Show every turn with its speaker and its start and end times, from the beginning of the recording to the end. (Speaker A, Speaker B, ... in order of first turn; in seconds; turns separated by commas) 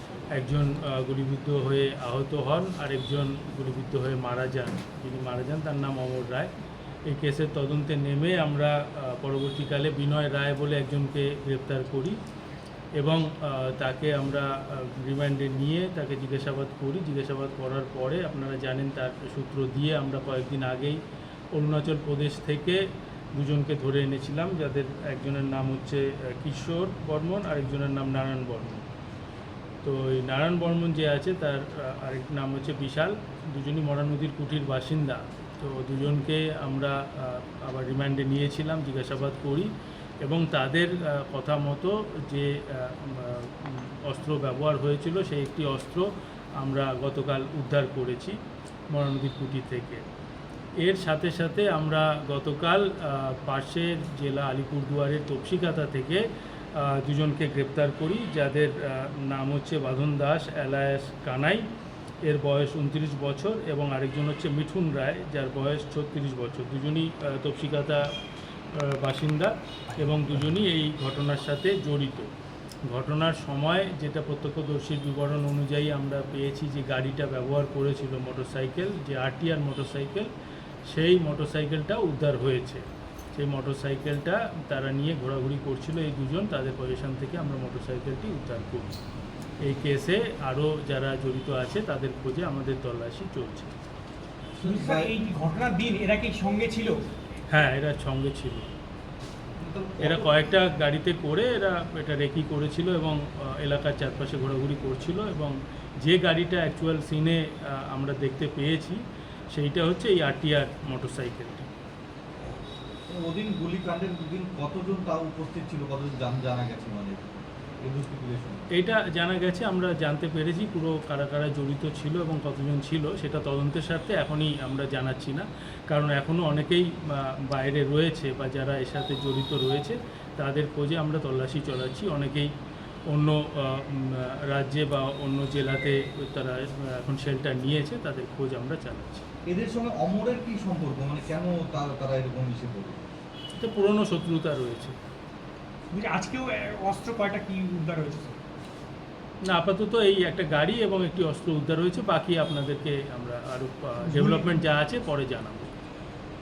Speaker A: 0.3-6.5, Speaker A: 7.1-12.2, Speaker A: 13.0-21.0, Speaker A: 21.5-22.8, Speaker A: 23.3-28.9, Speaker A: 29.8-39.7, Speaker A: 40.2-46.0, Speaker A: 46.6-48.4, Speaker A: 48.9-50.0, Speaker A: 50.8-56.2, Speaker A: 56.8-61.6, Speaker A: 62.2-68.0, Speaker A: 68.7-72.3, Speaker A: 72.9-80.3, Speaker A: 80.9-82.8, Speaker A: 83.3-88.9, Speaker A: 89.6-93.7, Speaker B: 94.6-95.1, Speaker C: 94.6-97.0, Speaker A: 97.5-98.7, Speaker B: 99.6-100.5, Speaker A: 100.0-109.0, Speaker A: 109.5-111.7, Speaker B: 113.1-118.6, Speaker A: 118.7-132.5, Speaker A: 133.1-139.2, Speaker B: 139.5-143.1, Speaker A: 143.6-144.9, Speaker C: 145.9-148.4, Speaker A: 149.5-155.7, Speaker C: 154.1-154.6